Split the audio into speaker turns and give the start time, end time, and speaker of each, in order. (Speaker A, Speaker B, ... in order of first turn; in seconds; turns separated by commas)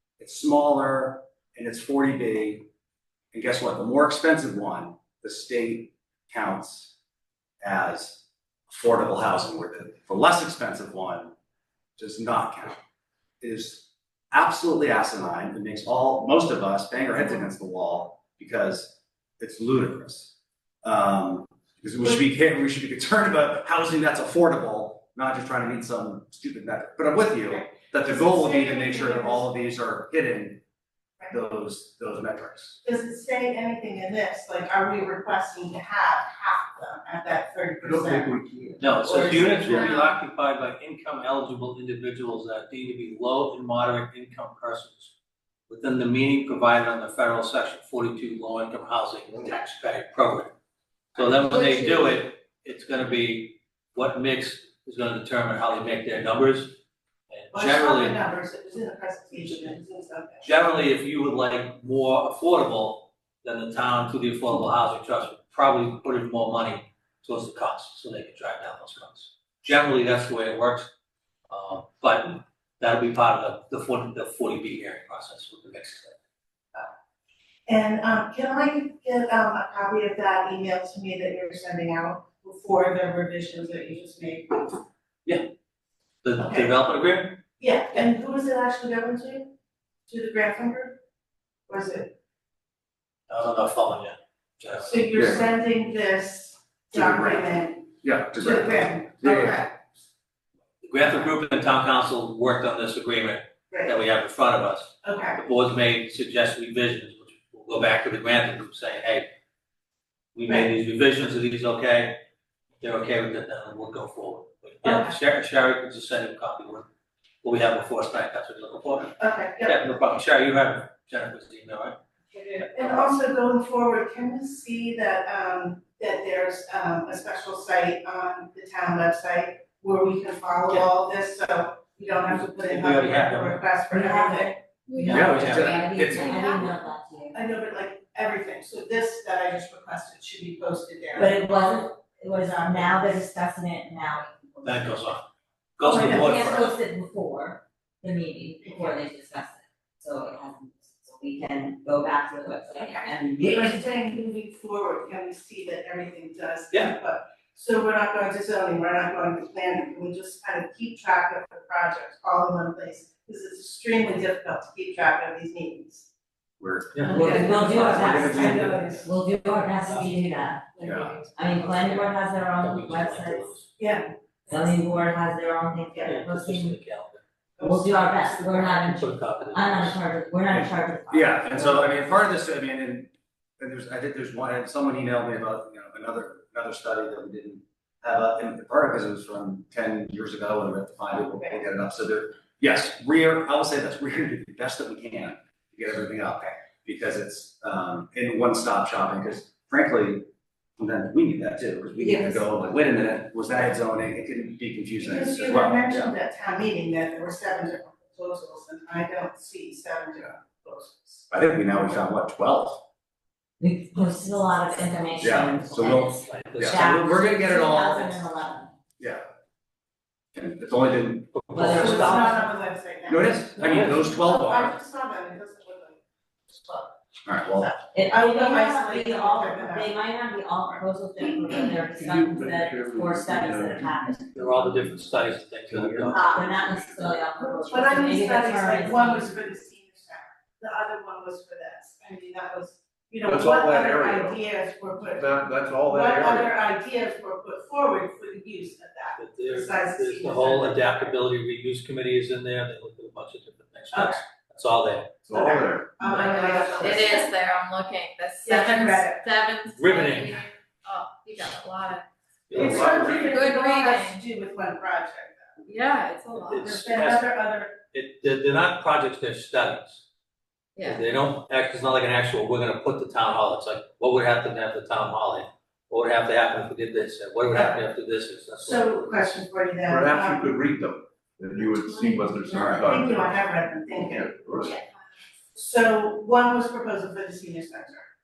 Speaker A: 0.2-2.6, Speaker A: 3.3-6.9, Speaker A: 7.6-11.3, Speaker A: 12.0-12.8, Speaker A: 13.4-30.6, Speaker B: 27.5-29.5, Speaker A: 31.3-32.8, Speaker B: 32.8-38.4, Speaker C: 37.8-39.9, Speaker D: 38.8-45.1, Speaker B: 38.9-39.9, Speaker E: 39.8-40.1, Speaker D: 45.7-50.5, Speaker D: 51.1-56.8, Speaker E: 51.5-52.1, Speaker D: 57.3-58.2, Speaker B: 57.5-60.5, Speaker D: 60.4-70.9, Speaker D: 71.5-76.2, Speaker B: 77.7-84.8, Speaker D: 86.2-87.4, Speaker B: 86.4-86.7, Speaker B: 87.6-89.5, Speaker B: 90.1-91.0, Speaker B: 91.7-92.1, Speaker D: 93.3-95.0, Speaker B: 94.8-99.7, Speaker C: 95.2-95.5, Speaker A: 97.0-97.4, Speaker A: 98.0-99.5, Speaker C: 99.2-99.5, Speaker D: 100.8-109.3, Speaker B: 103.7-104.0, Speaker B: 105.0-105.4, Speaker D: 110.3-112.2, Speaker D: 112.8-116.9, Speaker B: 114.8-115.2, Speaker D: 117.4-119.1, Speaker B: 119.2-119.8, Speaker D: 119.6-122.0, Speaker B: 122.3-135.5, Speaker D: 122.6-123.1, Speaker D: 132.2-133.6, Speaker F: 133.9-134.6, Speaker E: 134.8-136.7, Speaker A: 135.1-135.9, Speaker F: 135.1-137.4, Speaker D: 135.2-136.4, Speaker B: 137.3-143.2, Speaker F: 141.2-144.9, Speaker D: 144.6-145.2, Speaker D: 145.8-146.7, Speaker F: 145.8-153.8, Speaker B: 146.0-146.4, Speaker B: 148.6-148.9, Speaker B: 152.8-166.1, Speaker A: 166.6-168.8, Speaker D: 166.9-167.4, Speaker B: 167.0-169.1, Speaker F: 167.1-170.7, Speaker B: 170.8-171.3, Speaker A: 170.8-171.2, Speaker F: 171.3-173.5, Speaker D: 171.5-173.7, Speaker B: 173.8-174.1, Speaker F: 174.5-176.8, Speaker B: 175.9-176.2, Speaker D: 176.0-177.2, Speaker B: 177.6-178.7, Speaker F: 177.6-182.2, Speaker D: 178.6-180.0, Speaker A: 180.5-200.3, Speaker A: 200.8-206.1, Speaker F: 202.0-202.5, Speaker B: 205.0-211.2, Speaker A: 211.3-212.8, Speaker F: 213.6-218.7, Speaker A: 215.2-218.3, Speaker D: 216.2-216.9, Speaker A: 219.0-219.3, Speaker A: 220.3-222.3, Speaker F: 221.5-222.5, Speaker B: 221.7-229.9, Speaker A: 223.1-224.8, Speaker A: 227.2-227.7, Speaker F: 227.9-234.2, Speaker C: 231.5-237.2, Speaker D: 234.3-236.3, Speaker F: 236.1-239.3, Speaker B: 237.4-251.1, Speaker C: 243.2-244.4, Speaker C: 245.0-246.6, Speaker D: 249.2-255.1, Speaker B: 253.9-254.2, Speaker C: 255.2-256.1, Speaker B: 255.3-257.3, Speaker E: 256.0-262.0, Speaker B: 258.4-259.2, Speaker D: 259.7-260.4, Speaker D: 262.5-262.9, Speaker C: 262.5-263.6, Speaker B: 262.5-265.6, Speaker E: 263.1-264.2, Speaker E: 265.6-266.7, Speaker D: 266.4-267.3, Speaker B: 266.6-267.8, Speaker D: 267.8-270.0, Speaker E: 270.8-271.0, Speaker D: 270.8-278.9, Speaker B: 277.5-277.8, Speaker B: 278.6-280.5, Speaker C: 279.9-283.4, Speaker E: 282.4-282.9, Speaker B: 282.6-284.8, Speaker C: 283.9-284.8, Speaker B: 285.5-288.0